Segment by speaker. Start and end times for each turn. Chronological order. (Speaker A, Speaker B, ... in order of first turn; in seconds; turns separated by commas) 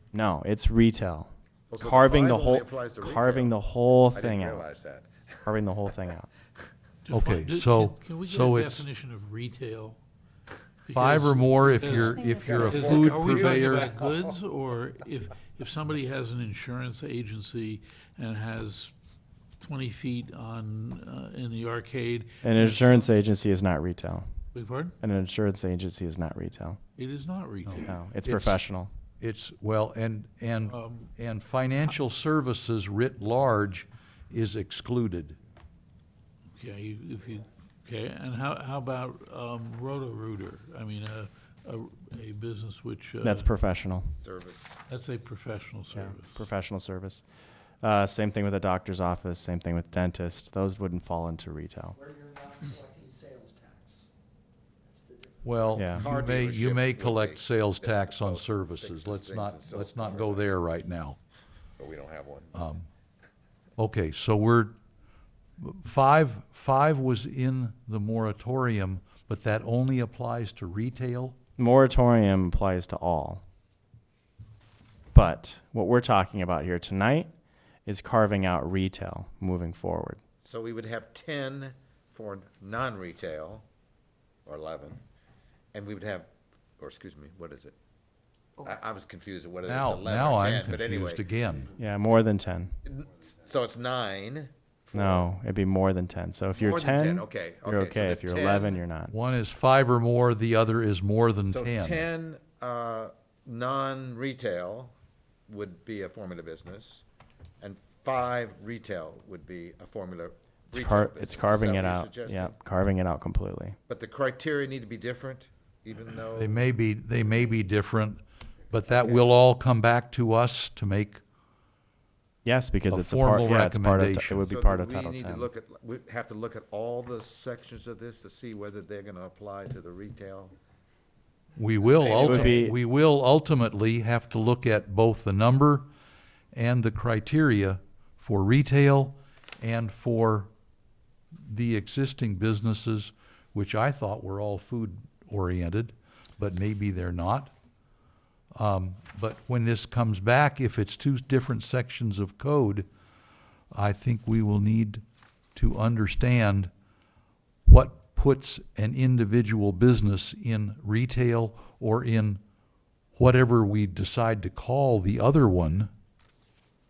Speaker A: 0.1-4.7, Speaker B: 1.7-3.5, Speaker B: 4.1-5.5, Speaker A: 5.5-6.3, Speaker C: 7.0-10.0, Speaker D: 7.1-8.8, Speaker C: 10.8-18.9, Speaker D: 10.9-13.9, Speaker B: 12.4-13.9, Speaker C: 19.6-23.0, Speaker A: 22.4-24.3, Speaker C: 24.5-24.9, Speaker A: 25.0-26.8, Speaker C: 27.0-27.9, Speaker D: 27.6-28.6, Speaker A: 27.8-28.9, Speaker D: 29.2-35.4, Speaker C: 30.7-31.1, Speaker C: 36.5-43.4, Speaker A: 43.2-44.1, Speaker B: 44.2-44.8, Speaker C: 44.9-46.4, Speaker A: 45.9-47.2, Speaker A: 47.8-52.0, Speaker E: 51.9-54.1, Speaker E: 54.9-55.8, Speaker D: 55.4-61.2, Speaker A: 55.7-56.1, Speaker B: 55.9-60.6, Speaker B: 61.8-62.6, Speaker D: 62.5-62.9, Speaker D: 63.8-64.7, Speaker D: 65.6-71.3, Speaker A: 71.6-73.4, Speaker A: 75.1-77.3, Speaker A: 77.8-80.2, Speaker B: 80.4-83.6, Speaker B: 84.5-85.0, Speaker B: 85.7-87.8, Speaker B: 88.6-91.2, Speaker D: 89.7-91.7, Speaker A: 91.7-92.7, Speaker B: 92.8-95.3, Speaker A: 94.9-99.1, Speaker B: 96.5-98.8, Speaker D: 99.1-102.0, Speaker B: 101.5-104.9, Speaker B: 105.5-107.0, Speaker B: 107.6-112.5, Speaker A: 110.7-113.8, Speaker B: 113.9-116.6, Speaker D: 116.3-121.2, Speaker A: 122.4-125.5, Speaker D: 122.9-124.4, Speaker B: 124.5-130.5, Speaker D: 131.6-135.9, Speaker B: 131.8-132.6, Speaker A: 132.2-132.8, Speaker D: 136.5-140.5, Speaker D: 141.4-147.5, Speaker D: 148.6-152.9, Speaker D: 153.7-155.0, Speaker D: 155.5-156.7, Speaker D: 157.7-162.4, Speaker D: 163.2-165.9